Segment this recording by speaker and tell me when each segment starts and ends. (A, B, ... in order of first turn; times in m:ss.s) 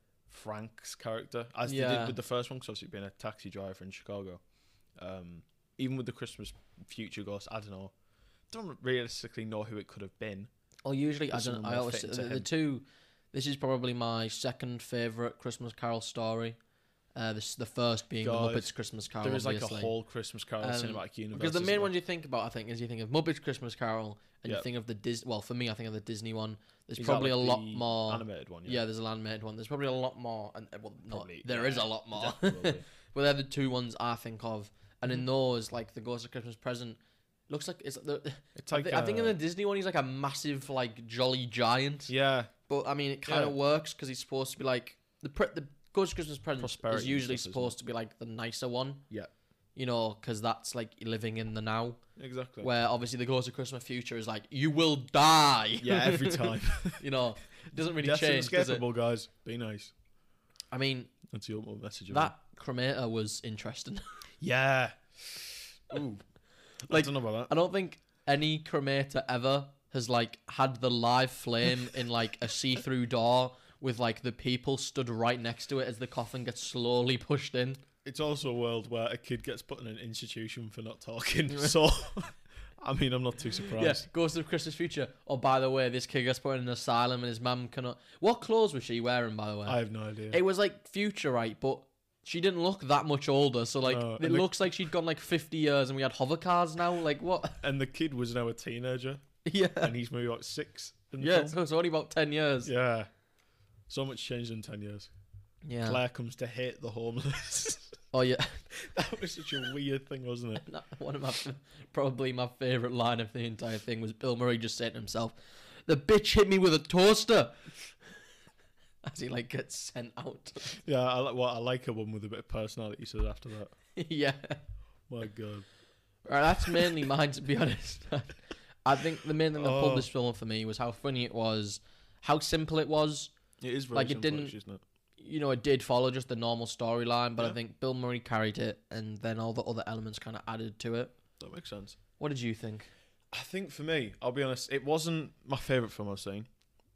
0:00.3-0:04.4 A
0:01.6-0:02.2 B
0:05.0-0:07.9 A
0:08.5-0:10.5 A
0:10.8-0:16.6 B
0:11.3-0:12.5 A
0:17.1-0:19.9 B
0:18.2-0:21.9 A
0:20.6-0:37.0 B
0:27.0-0:28.8 A
0:31.1-0:32.8 A
0:37.5-0:42.1 B
0:38.6-0:39.4 A
0:42.1-0:42.5 A
0:42.7-0:49.0 B
0:43.3-0:43.5 A
0:46.6-0:47.7 A
0:49.7-0:52.0 B
0:52.2-0:52.7 A
0:52.6-0:58.8 B
0:55.8-0:57.0 A
0:58.0-0:59.9 A
1:00.7-1:01.1 B
1:01.3-1:02.3 A
1:02.1-1:04.0 B
1:04.4-1:06.2 A
1:06.8-1:17.8 B
1:06.9-1:07.5 A
1:18.0-1:24.0 A
1:23.7-1:29.8 B
1:29.6-1:30.4 A
1:30.3-1:37.6 B
1:33.8-1:34.5 A
1:37.6-1:39.2 A
1:39.4-1:39.9 B
1:39.8-1:41.6 A
1:41.2-1:42.7 B
1:42.6-1:43.1 A
1:43.9-1:45.1 A
1:45.6-1:46.0 B
1:45.8-1:48.0 A
1:48.1-1:48.6 B
1:48.7-1:50.6 A
1:50.6-1:55.3 B
1:55.9-1:57.9 B
1:59.0-2:00.8 B
2:00.7-2:03.7 A
2:03.9-2:04.6 B
2:05.1-2:05.7 A
2:06.2-2:13.3 B
2:09.6-2:10.1 A
2:13.6-2:14.8 A
2:13.9-2:14.5 B
2:15.2-2:21.1 B
2:21.4-2:22.0 A
2:22.2-2:22.9 B
2:23.3-2:26.5 A